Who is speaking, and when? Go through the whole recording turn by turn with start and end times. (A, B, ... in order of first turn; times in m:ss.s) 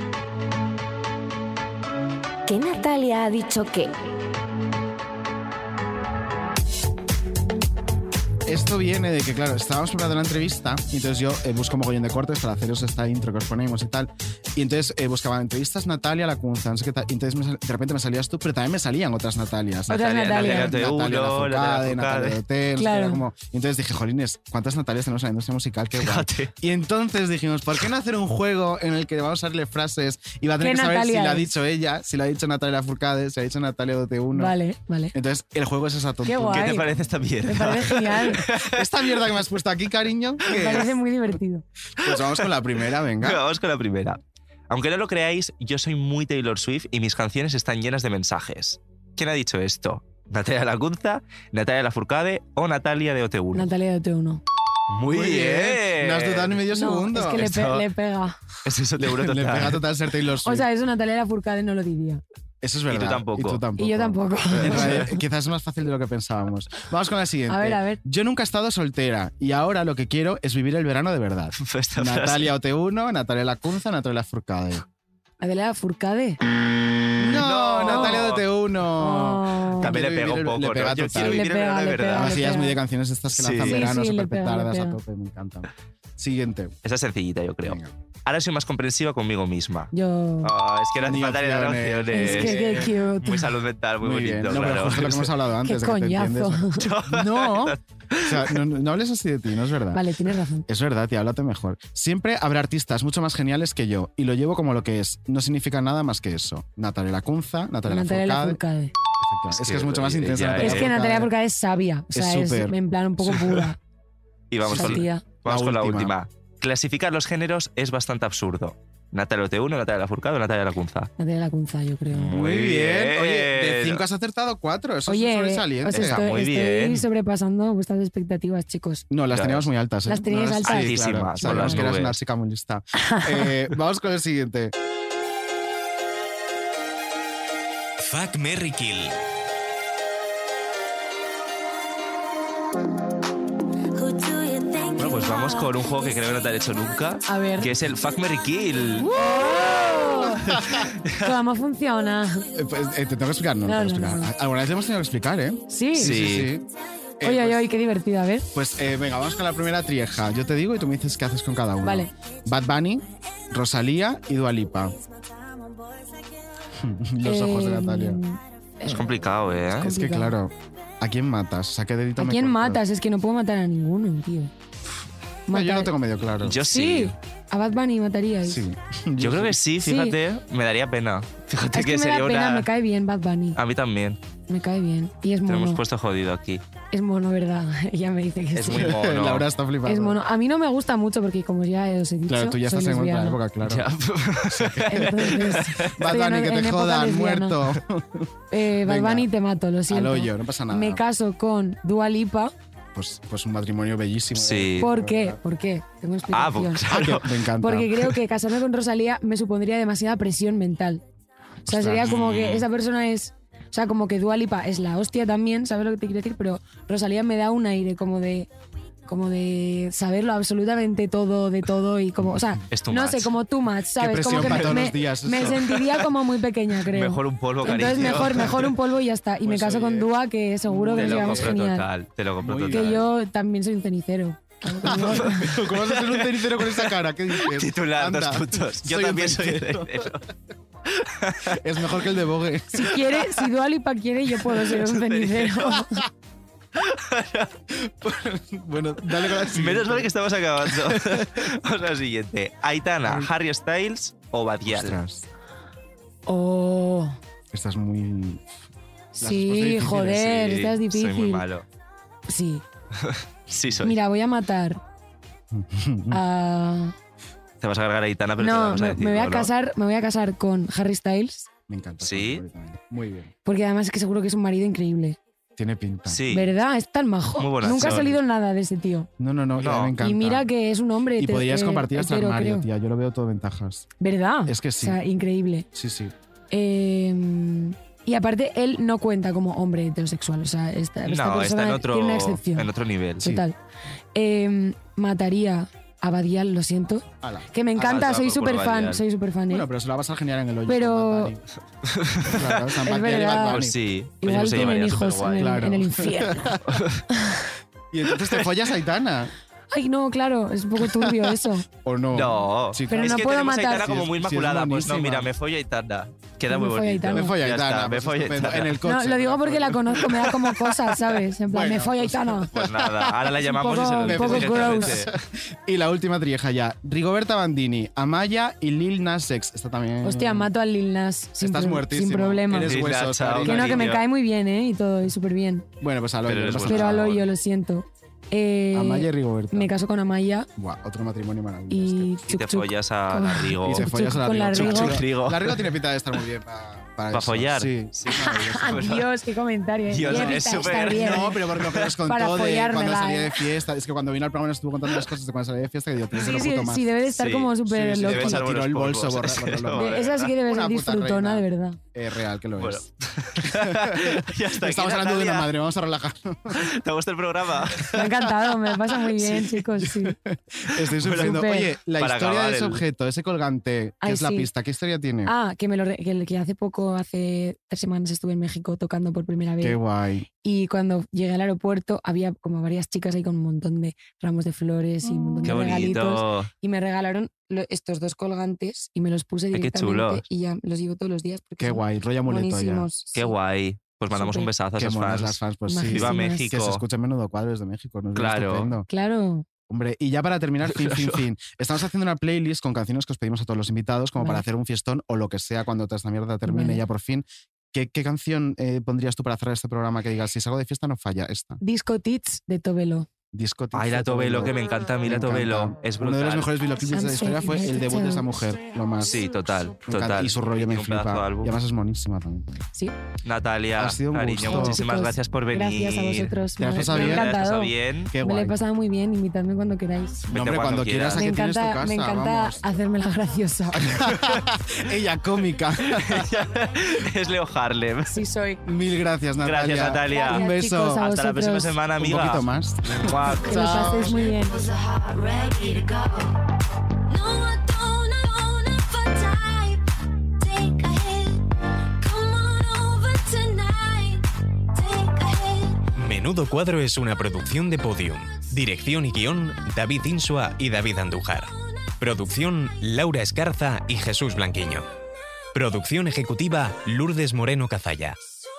0:02.5-0:02.9 A
0:03.4-0:03.8 A
0:08.5-0:34.6 B
0:19.9-0:20.8 A
0:19.9-0:22.4 C
0:22.8-0:23.2 A
0:26.0-0:26.5 C
0:30.6-0:31.5 A
0:34.3-0:35.1 A
0:35.1-0:36.9 B
0:36.3-0:36.9 A
0:36.5-0:38.8 C
0:37.5-0:38.5 A
0:38.6-0:40.9 B
0:40.5-0:41.6 A
0:42.0-0:43.4 B
0:42.0-0:42.5 C
0:43.2-0:44.2 C
0:44.7-0:53.7 C
0:53.5-0:54.4 A
0:55.0-0:57.6 B
0:55.0-0:56.6 C
0:56.7-0:58.4 A
0:57.4-0:57.9 C
0:58.6-0:59.8 C
0:59.0-1:00.7 B
1:00.4-1:02.2 A
1:02.6-1:14.8 B
1:02.9-1:03.6 C
1:03.8-1:05.0 A
1:04.6-1:05.1 C
1:07.5-1:08.0 A
1:11.6-1:12.5 C
1:15.4-1:16.4 A
1:17.2-1:21.4 B
1:17.4-1:18.4 C
1:17.9-1:18.1 A
1:19.0-1:20.0 A
1:19.8-1:22.3 C
1:21.2-1:22.8 A
1:22.1-1:26.8 B
1:23.3-1:23.8 C
1:23.6-1:25.0 A
1:26.8-1:29.9 C
1:27.6-1:27.9 B
1:29.9-1:30.5 A
1:30.4-1:35.3 C
1:31.0-1:32.9 B
1:32.1-1:33.5 A
1:34.0-1:40.0 B
1:35.6-1:36.8 A
1:36.8-1:38.5 C
1:39.9-1:40.7 A
1:40.7-1:48.6 B
1:47.9-1:48.9 A
1:49.2-1:51.3 B
1:49.5-1:50.9 C
1:50.6-1:53.8 A
1:52.1-1:52.8 B
1:54.5-2:01.1 C
1:54.6-1:56.2 B
1:54.7-1:55.2 A
2:01.2-2:02.3 A
2:02.1-2:04.0 C
2:02.3-2:06.2 B
2:05.1-2:09.0 A
2:05.9-2:07.0 C
2:09.1-2:14.7 B
2:09.3-2:09.7 C
2:10.1-2:11.8 A
2:10.6-2:12.2 C
2:13.0-2:13.5 A
2:18.0-2:19.2 D
2:24.0-2:26.4 E
2:25.0-2:29.7 C
2:27.3-2:27.7 A
2:29.0-2:30.6 A
2:30.5-2:31.3 C
2:30.6-2:30.8 B
2:31.2-2:32.5 A
2:32.5-2:36.7 B
2:33.6-2:34.3 A
2:35.7-2:36.1 A
2:36.0-2:36.5 C
2:37.2-2:37.7 B
2:37.2-2:38.5 A
2:38.5-2:45.0 B
2:41.8-2:42.1 A
2:46.8-2:48.2 B
2:47.2-2:49.3 A
2:48.9-2:49.9 C
2:49.8-2:50.4 A
2:49.8-2:52.8 B
2:52.2-2:54.5 A
2:55.5-2:55.9 A
2:55.5-2:56.6 B
2:56.4-2:57.2 C
2:56.7-2:58.6 A
2:58.4-2:59.6 B
2:59.2-3:02.7 C
2:59.8-3:00.2 A
3:01.7-3:03.6 A
3:03.6-3:04.2 C
3:04.5-3:05.8 A
3:05.5-3:06.6 C
3:06.9-3:08.9 A
3:08.6-3:09.5 C
3:08.7-3:10.2 B
3:09.9-3:13.4 A
3:12.3-3:13.9 B
3:13.6-3:15.9 C
3:14.5-3:19.3 B
3:14.9-3:17.6 A
3:18.5-3:22.5 A
3:19.9-3:21.0 B
3:23.0-3:25.4 B
3:24.4-3:24.9 C
3:24.8-3:26.9 A
3:26.3-3:27.4 C
3:26.9-3:28.0 B
3:27.6-3:31.0 A
3:31.7-3:38.5 A
3:31.7-3:32.1 B
3:32.0-3:32.7 C
3:39.1-3:51.9 A
3:42.7-3:43.3 C
3:44.0-3:45.7 B
3:44.2-3:45.8 C
3:46.9-3:48.7 C
3:49.4-3:50.1 B
3:50.6-3:51.6 B
3:51.0-3:53.0 C
3:52.4-3:53.1 B
3:52.7-3:55.5 A
3:54.8-4:00.2 B
3:54.9-4:00.2 C
4:00.9-4:01.6 C
4:01.5-4:03.0 B
4:02.7-4:06.0 A
4:04.5-4:05.8 C
4:06.8-4:07.6 C
4:07.8-4:11.5 B
4:09.3-4:15.0 C
4:13.0-4:13.3 B
4:14.7-4:15.3 B
4:16.3-4:17.2 A
4:17.5-4:18.5 B
4:19.2-4:21.4 A
4:19.2-4:20.4 B
4:20.0-4:21.6 C
4:22.3-4:22.6 A
4:23.0-4:24.0 C
4:23.8-4:24.8 A
4:25.5-4:26.2 B
4:26.1-4:27.0 A
4:27.6-4:29.5 C
4:28.4-4:31.5 A
4:31.7-4:33.3 B
4:32.0-4:32.4 C
4:33.4-4:35.2 A
4:35.6-4:36.3 B
4:36.1-4:36.5 C
4:36.3-4:39.1 A
4:37.4-4:38.2 C
4:37.6-4:38.2 B
4:39.2-4:40.5 B
4:39.6-4:40.0 C
4:40.0-4:42.7 A
4:41.2-4:43.9 B
4:44.0-4:45.7 A
4:44.5-4:45.0 B
4:45.7-4:46.1 B
4:46.5-4:52.7 A
4:51.1-4:53.3 C
4:53.2-4:53.6 A
4:54.2-4:59.7 A
4:57.2-4:57.5 B
4:57.8-4:59.0 C
4:59.5-5:01.4 B
5:00.7-5:01.3 A
5:01.9-5:02.8 C
5:02.2-5:03.8 B
5:02.9-5:03.6 A
5:03.4-5:05.7 C
5:04.2-5:06.5 A
5:04.4-5:04.7 B
5:05.4-5:06.8 B
5:06.7-5:07.0 C
5:07.1-5:07.5 A
5:07.9-5:09.3 B
5:09.7-5:11.6 A
5:10.8-5:11.3 B
5:11.8-5:15.3 B
5:12.1-5:18.8 C
5:12.9-5:14.0 A
5:16.5-5:17.3 A
5:17.0-5:20.9 B
5:18.8-5:22.5 A
5:21.5-5:23.3 B
5:22.5-5:25.1 C
5:23.4-5:25.0 A
5:24.0-5:30.5 B
5:30.0-5:32.7 A
5:31.4-5:34.0 B
5:32.6-5:34.0 C
5:33.4-5:35.7 A
5:35.8-5:37.2 B
5:36.3-5:37.2 C
5:36.7-5:40.5 A
5:38.7-5:39.7 B
5:40.6-5:42.1 B
5:41.7-5:45.0 A
5:42.3-5:45.7 C
5:43.6-5:48.9 B
5:47.1-5:49.1 C
5:48.1-5:51.4 A
5:49.9-5:51.9 C
5:50.0-5:56.9 B
5:52.1-5:53.4 A
5:56.2-5:58.4 A
5:57.2-6:00.3 C
5:57.7-6:02.9 B
5:59.7-6:01.8 A
6:02.6-6:05.5 C
6:03.4-6:06.6 B
6:06.5-6:08.2 C
6:07.9-6:10.2 A
6:09.8-6:15.3 B
6:10.8-6:11.4 C
6:11.2-6:11.7 A
6:12.0-6:12.8 C
6:14.0-6:14.5 A
6:15.2-6:19.8 A
6:19.6-6:20.3 B
6:20.4-6:33.3 A
6:25.4-6:25.8 B
6:25.4-6:26.5 C
6:29.5-6:30.2 C
6:31.6-6:32.9 B
6:33.2-6:36.8 C
6:34.1-6:34.5 A
6:34.8-6:38.9 B
6:35.7-6:36.5 A
6:38.2-6:38.7 C
6:38.9-6:39.5 A
6:39.7-6:51.6 B
6:40.7-6:41.2 C
6:44.2-6:44.4 A
6:46.5-6:46.8 A
6:51.6-6:53.1 A
6:53.3-6:59.2 B
6:53.7-6:56.5 C
6:56.8-6:58.3 A
6:59.0-7:01.6 C
6:59.8-7:02.5 B
7:03.2-7:08.1 C
7:03.8-7:04.8 B
7:04.5-7:10.2 A
7:06.6-7:07.3 B
7:08.1-7:08.6 B
7:10.3-7:12.6 B
7:10.3-7:11.3 C
7:11.2-7:14.1 A
7:13.8-7:16.3 B
7:16.0-7:18.2 C
7:18.1-7:18.6 A
7:18.6-7:21.0 B
7:19.4-7:23.8 C
7:20.1-7:21.8 A
7:22.0-7:24.1 B
7:23.2-7:26.3 E
7:23.5-7:24.6 A
7:27.1-7:29.8 E
7:30.4-7:31.4 E
7:32.0-7:35.9 E
7:36.0-7:44.9 D
7:45.5-7:48.2 D